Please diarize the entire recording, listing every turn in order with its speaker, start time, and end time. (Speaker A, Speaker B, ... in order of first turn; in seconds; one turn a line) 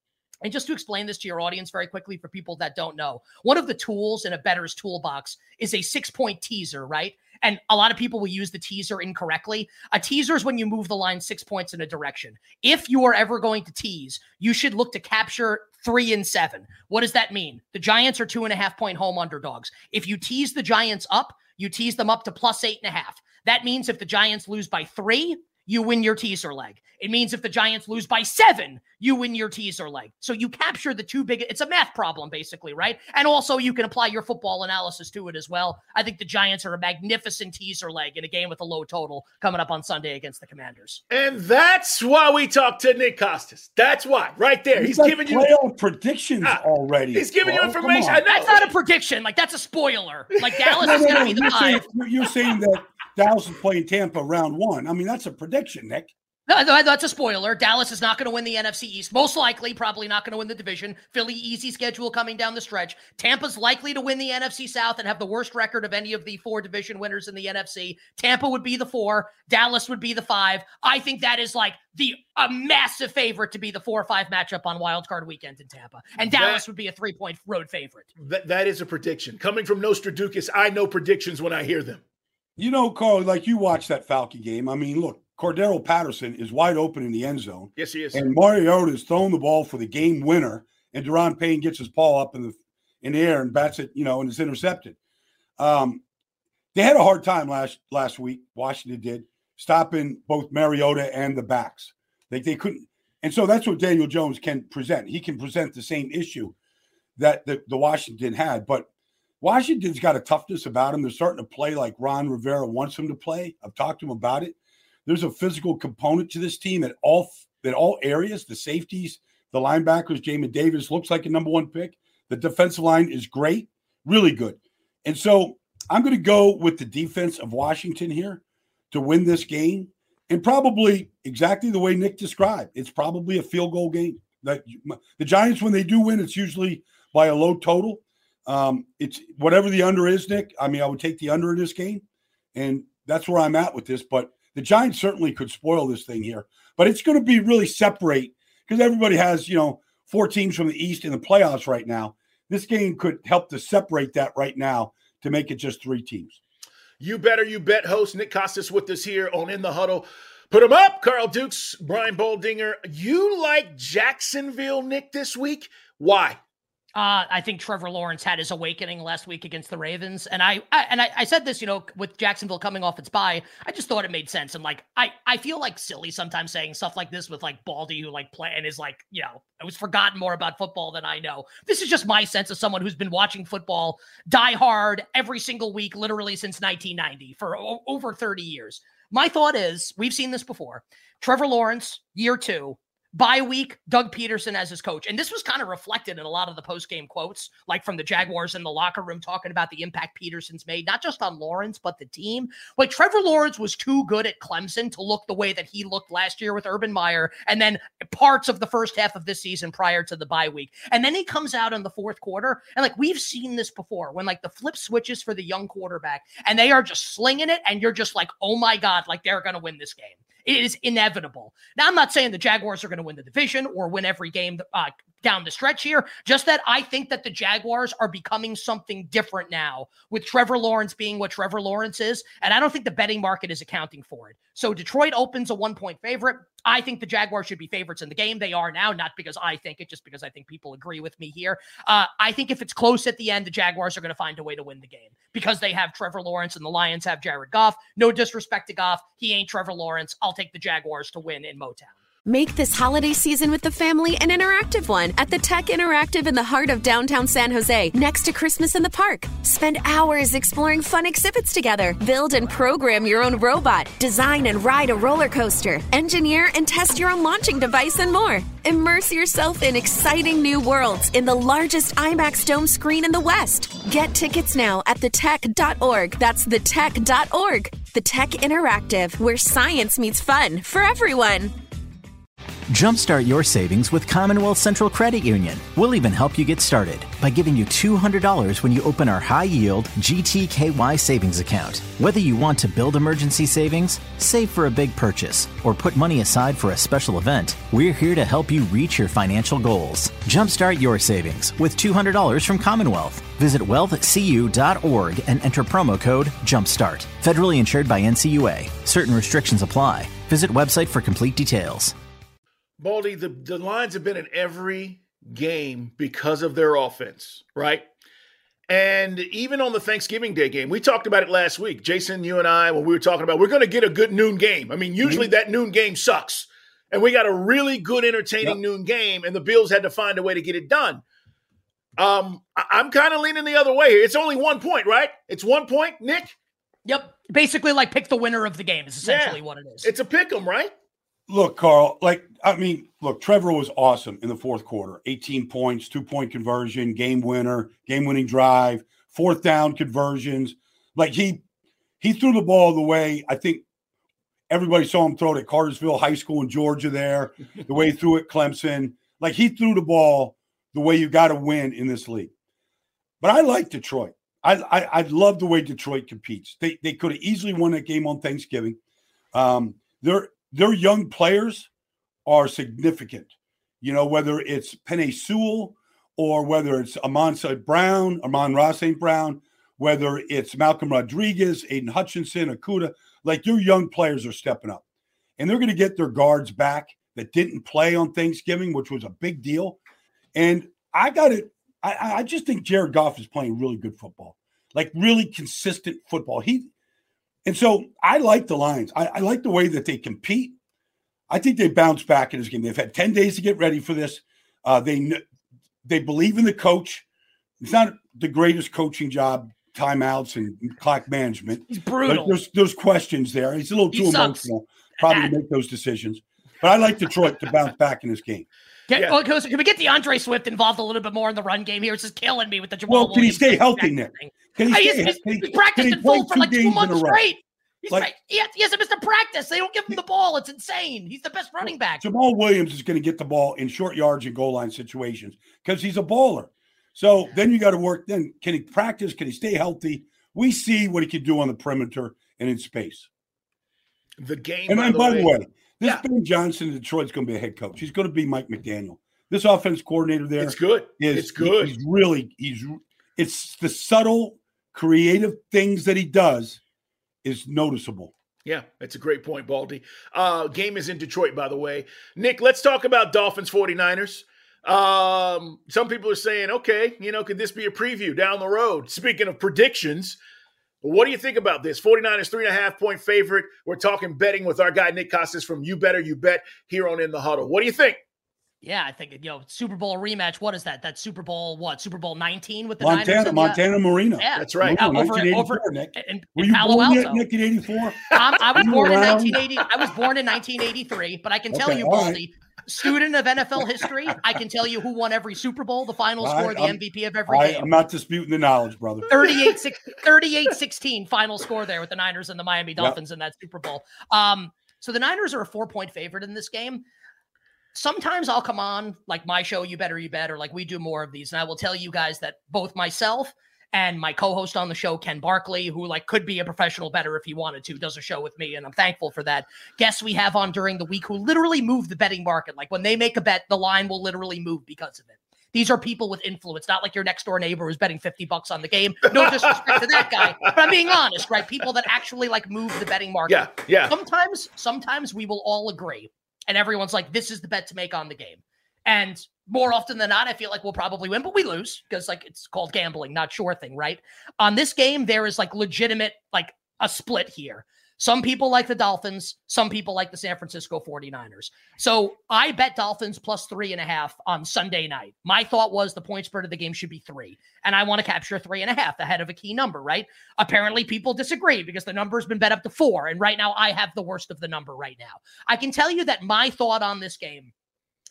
Speaker A: 0.4-41.0
Speaker B: 41.1-45.5
Speaker C: 44.7-48.2
Speaker B: 47.1-48.7
Speaker A: 48.3-51.9
Speaker C: 50.8-56.1
Speaker A: 56.5-78.1
Speaker B: 76.2-76.6
Speaker B: 78.2-82.0
Speaker C: 82.6-95.0
Speaker B: 87.8-88.2
Speaker C: 95.6-96.0
Speaker C: 96.7-106.5
Speaker C: 107.2-108.9
Speaker C: 109.4-142.0
Speaker C: 142.5-156.4
Speaker B: 157.0-166.4
Speaker A: 166.9-251.9
Speaker D: 252.2-281.5
Speaker E: 282.7-311.9
Speaker B: 312.8-317.9
Speaker B: 318.7-331.0
Speaker C: 325.0-325.3
Speaker B: 332.0-336.3
Speaker A: 336.9-339.9
Speaker B: 339.0-340.7
Speaker C: 341.3-351.4
Speaker C: 352.0-353.6
Speaker C: 354.5-362.3
Speaker C: 363.2-368.8
Speaker C: 369.3-371.7
Speaker C: 372.2-384.8
Speaker C: 385.4-389.8
Speaker C: 390.3-396.7
Speaker C: 397.4-400.6
Speaker C: 401.3-405.2
Speaker C: 405.8-407.0
Speaker C: 407.6-418.4
Speaker A: 411.7-412.4
Speaker A: 413.9-415.3
Speaker A: 418.9-432.0
Speaker C: 422.9-427.2
Speaker C: 432.0-443.1
Speaker B: 444.2-446.0
Speaker C: 444.7-456.6
Speaker B: 450.4-451.8
Speaker C: 457.2-458.1
Speaker B: 458.4-470.2
Speaker B: 470.8-478.0
Speaker A: 478.6-483.6
Speaker C: 482.8-489.4
Speaker A: 484.2-487.2
Speaker B: 484.4-484.8
Speaker A: 488.1-497.7
Speaker C: 491.5-492.2
Speaker C: 496.2-499.1
Speaker A: 499.1-506.8
Speaker A: 507.7-567.5
Speaker B: 529.1-530.3
Speaker B: 533.3-533.9